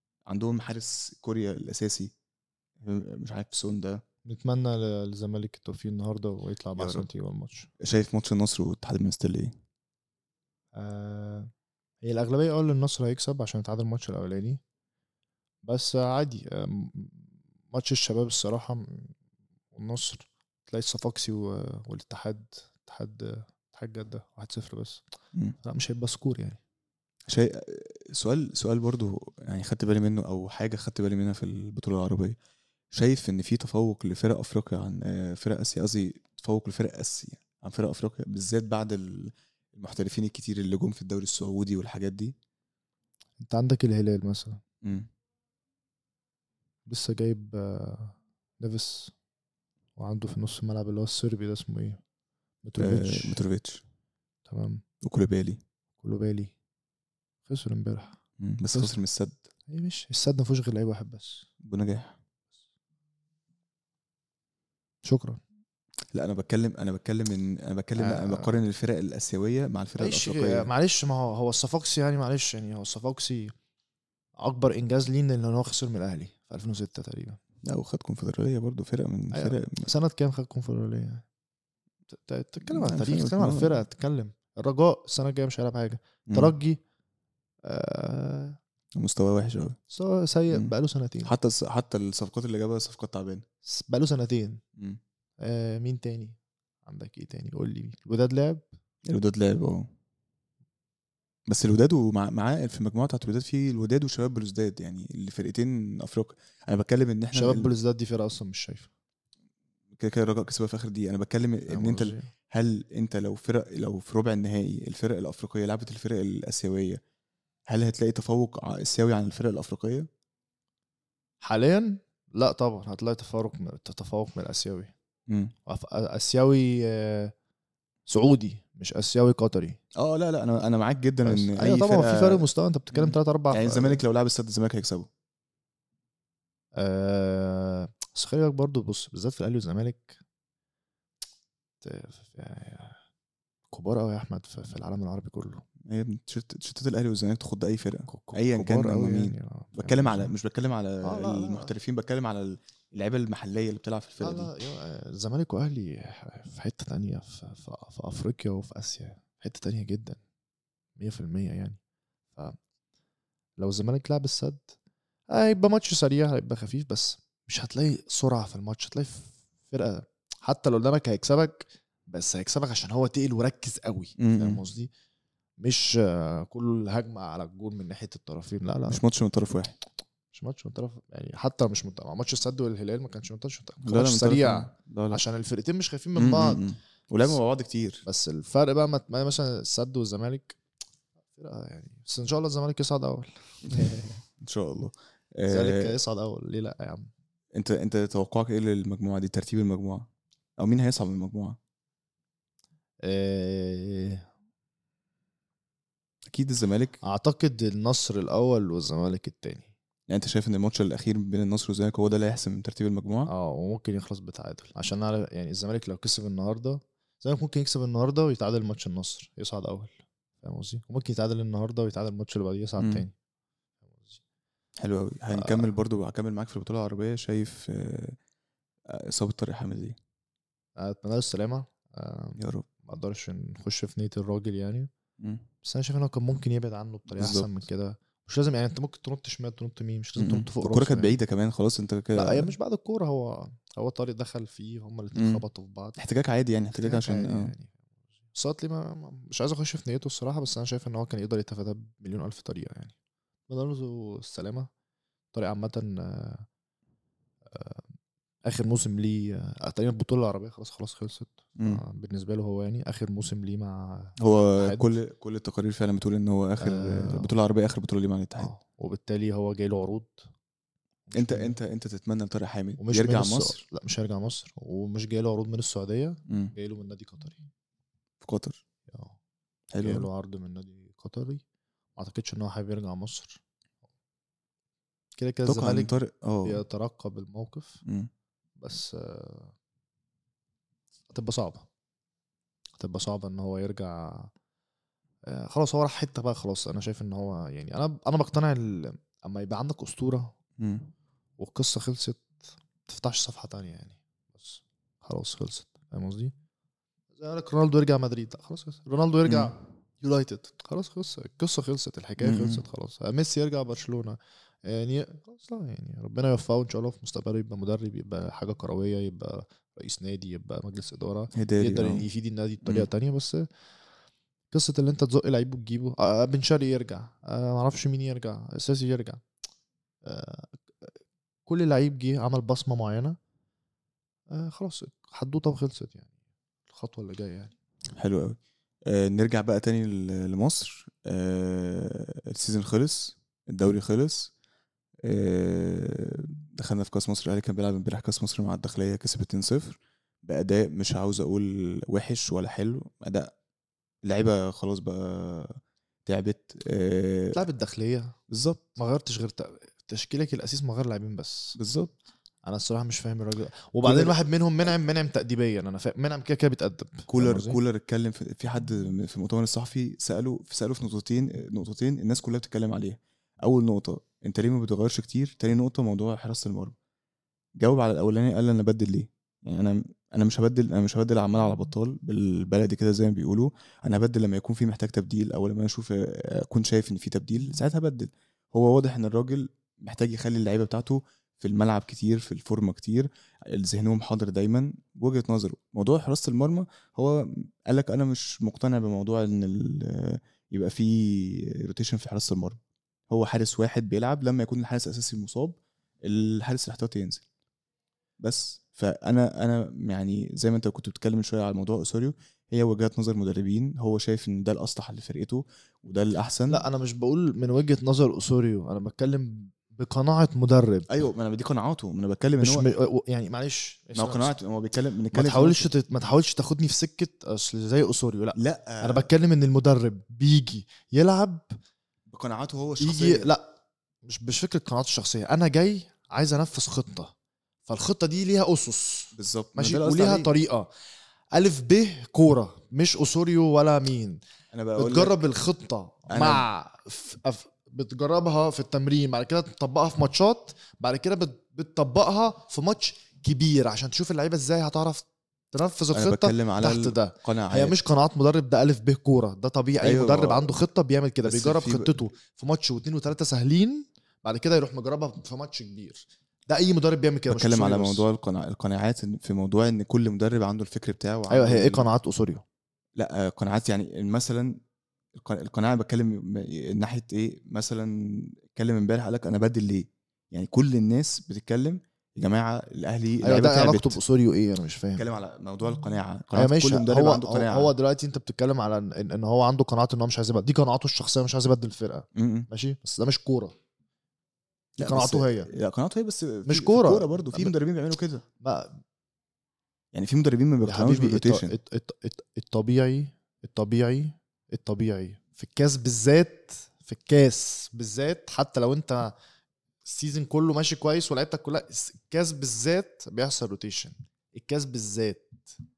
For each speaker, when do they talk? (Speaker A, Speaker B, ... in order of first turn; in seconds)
Speaker A: 0.3-2.1, 2.8-4.0, 6.8-7.0, 7.8-9.5, 27.3-32.4, 32.9-42.3, 44.8-45.1, 52.8-53.8, 55.0-55.6, 58.4-59.5, 61.6-62.1, 66.1-70.7, 77.6-79.9, 82.7-83.8, 86.3-86.5, 88.9-89.8, 91.2-93.4, 99.0-99.9, 101.5-107.7, 109.9-117.0, 117.7-120.1, 125.3-125.5, 130.0-135.1, 145.8-154.5, 174.2-174.6, 178.9-179.8, 183.8-185.2, 186.2-188.0, 193.6-195.9, 197.5-201.6, 206.3-207.0, 210.1-213.3, 222.8-223.0, 224.8-228.2, 228.9-230.0, 232.4-232.7, 235.2-235.4, 237.2-237.5, 240.2-242.5, 245.1-245.4, 245.9-247.5, 264.2-268.5, 271.1-273.6, 276.3-276.5, 278.2-278.6, 279.7-280.1, 285.4-286.6, 287.8-288.1, 300.6-300.9, 309.3-309.5, 312.2-312.6, 321.3-322.1, 337.9-344.3, 345.0-353.3, 354.0-357.4, 358.3-358.7, 361.6-361.9, 363.8-364.7, 367.1-376.7, 377.6-407.2, 408.2-416.6, 420.9-422.7, 423.9-425.6, 428.3-429.1, 432.1-433.3, 439.1-440.3, 444.5-445.2, 446.1-446.4, 455.9-457.7, 459.8-460.5, 461.2-461.9, 467.3-471.9, 472.9-474.6, 475.1-484.0, 484.9-487.7, 492.1-492.5, 494.8-498.2, 499.9-501.5
Speaker B: 4.2-7.7, 10.7-11.5, 12.0-14.6, 15.6-19.1, 19.7-25.0, 25.6-26.6, 43.4-44.6, 46.9-49.1, 50.0-52.0, 52.6-53.4, 54.5-54.8, 56.0-56.5, 57.5-58.2, 59.7-61.5, 65.0-65.4, 68.0-68.5, 70.0-73.5, 74.4-77.4, 79.3-81.2, 82.1-86.8, 87.6-88.6, 89.9-91.3, 93.6-94.6, 95.4-98.6, 107.3-108.9, 111.7-112.3, 121.4-124.9, 125.7-127.3, 128.1-129.8, 131.2-134.0, 136.8-140.2, 141.8-143.0, 143.7-145.6, 148.1-150.3, 151.0-151.7, 154.2-160.2, 161.0-161.8, 163.6-164.7, 165.3-174.9, 175.6-179.0, 180.3-186.6, 188.0-190.6, 191.3-194.2, 195.5-197.1, 203.0-204.2, 207.0-209.7, 213.3-223.1, 223.9-224.2, 225.3-225.7, 230.8-234.9, 235.6-241.2, 242.1-246.0, 246.8-247.7, 248.3-252.9, 253.5-254.7, 255.3-256.4, 257.5-257.8, 258.4-264.9, 266.6-267.3, 268.4-270.2, 271.1-271.5, 272.8-277.5, 278.9-279.1, 279.8-281.4, 281.9-283.4, 285.2-287.8, 288.6-289.5, 291.1-291.6, 292.8-294.3, 295.2-300.3, 301.4-306.3, 307.2-323.5, 324.5-329.2, 330.0-330.9, 331.5-333.2, 334.3-336.1, 336.7-337.5, 357.3-358.1, 358.8-361.6, 362.4-367.6, 416.5-420.9, 422.4-424.3, 425.1-431.5, 432.8-433.5, 434.0-437.1, 437.6-440.7, 441.3-444.2, 444.8-468.0, 471.3-472.4, 483.2-485.0, 486.3-493.5, 494.8-495.5, 496.4-497.5, 498.4-498.8, 500.6-509.1, 509.8-515.5